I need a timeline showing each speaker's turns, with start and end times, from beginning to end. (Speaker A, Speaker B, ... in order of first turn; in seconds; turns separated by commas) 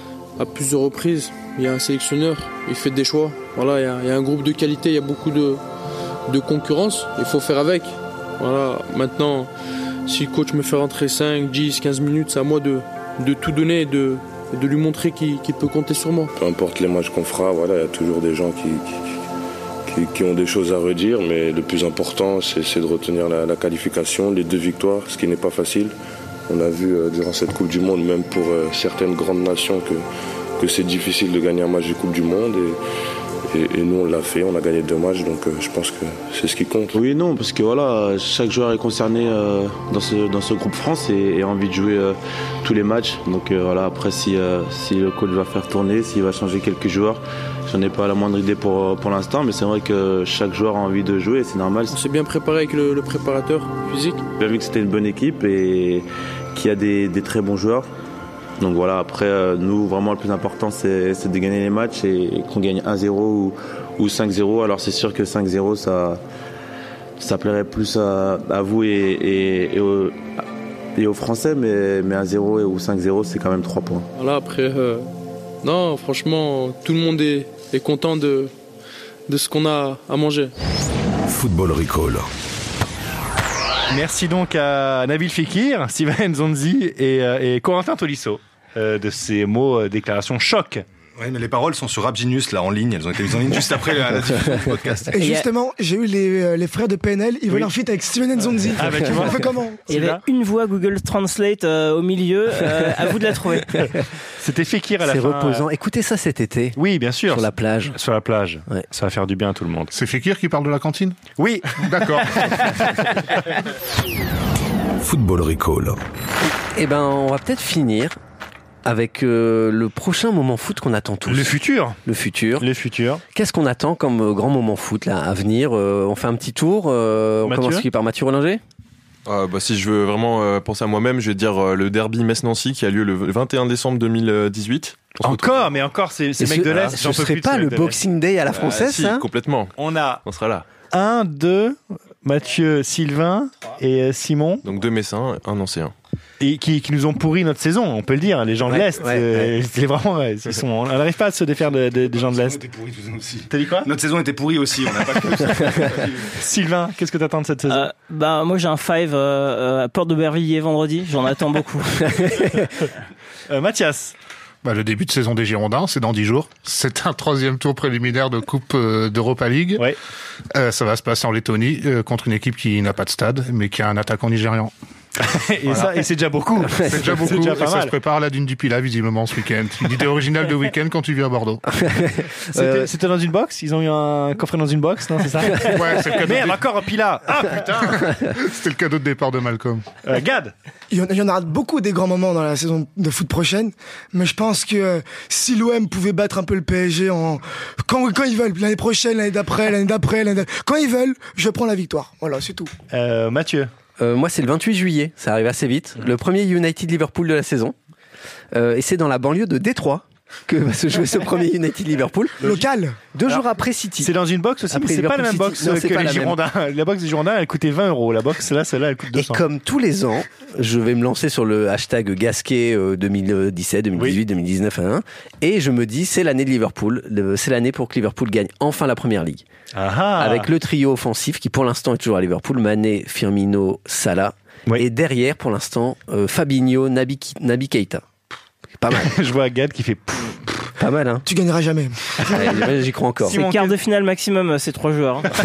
Speaker A: 0.4-5.6, Speaker A: 6.3-9.5, Speaker A: 10.1-16.3, Speaker B: 16.4-19.0, Speaker B: 19.9-25.9, Speaker B: 26.5-30.0, Speaker B: 30.6-32.8, Speaker B: 33.5-37.0, Speaker C: 36.9-51.9, Speaker A: 51.9-54.2, Speaker C: 54.4-57.9, Speaker C: 58.6-66.2, Speaker C: 67.2-70.1, Speaker C: 71.0-74.1, Speaker A: 74.2-75.1, Speaker A: 75.6-78.5, Speaker A: 79.3-80.5, Speaker D: 81.3-82.2, Speaker E: 83.9-90.8, Speaker F: 91.2-95.1, Speaker G: 95.1-99.8, Speaker H: 95.2-95.5, Speaker E: 98.7-100.2, Speaker H: 99.9-104.0, Speaker E: 104.3-105.7, Speaker I: 105.0-107.9, Speaker E: 106.8-109.9, Speaker J: 109.9-111.2, Speaker E: 111.4-113.4, Speaker J: 111.8-112.6, Speaker D: 115.0-116.0, Speaker I: 116.7-118.2, Speaker I: 118.8-122.7, Speaker E: 121.3-122.0, Speaker E: 122.6-123.2, Speaker I: 123.3-128.6, Speaker E: 127.4-127.8, Speaker K: 129.2-135.8, Speaker E: 135.2-138.0, Speaker I: 136.4-139.2, Speaker K: 138.5-140.7, Speaker E: 139.8-140.2, Speaker E: 140.9-144.6, Speaker K: 144.6-145.9, Speaker E: 146.4-152.6, Speaker I: 148.7-149.5, Speaker F: 151.8-156.3, Speaker E: 153.5-153.9, Speaker E: 156.3-157.9, Speaker H: 157.7-162.4, Speaker E: 163.5-164.1, Speaker J: 164.6-169.9, Speaker J: 170.5-174.7, Speaker E: 175.2-177.9, Speaker J: 176.8-181.6, Speaker I: 181.8-182.9, Speaker E: 182.5-188.1, Speaker J: 185.5-186.6, Speaker J: 187.4-189.8, Speaker E: 190.0-190.5, Speaker G: 190.9-202.7, Speaker E: 202.9-203.7, Speaker I: 204.0-207.7, Speaker I: 208.5-212.4, Speaker G: 212.4-213.0, Speaker I: 213.1-214.1, Speaker E: 214.0-219.4, Speaker I: 214.7-216.4, Speaker I: 219.1-229.4, Speaker E: 229.7-230.5, Speaker I: 230.2-238.0, Speaker I: 238.8-239.1, Speaker E: 238.9-240.7, Speaker I: 240.8-241.2, Speaker G: 241.2-242.6, Speaker I: 242.3-243.4, Speaker E: 243.2-243.7, Speaker H: 243.3-245.3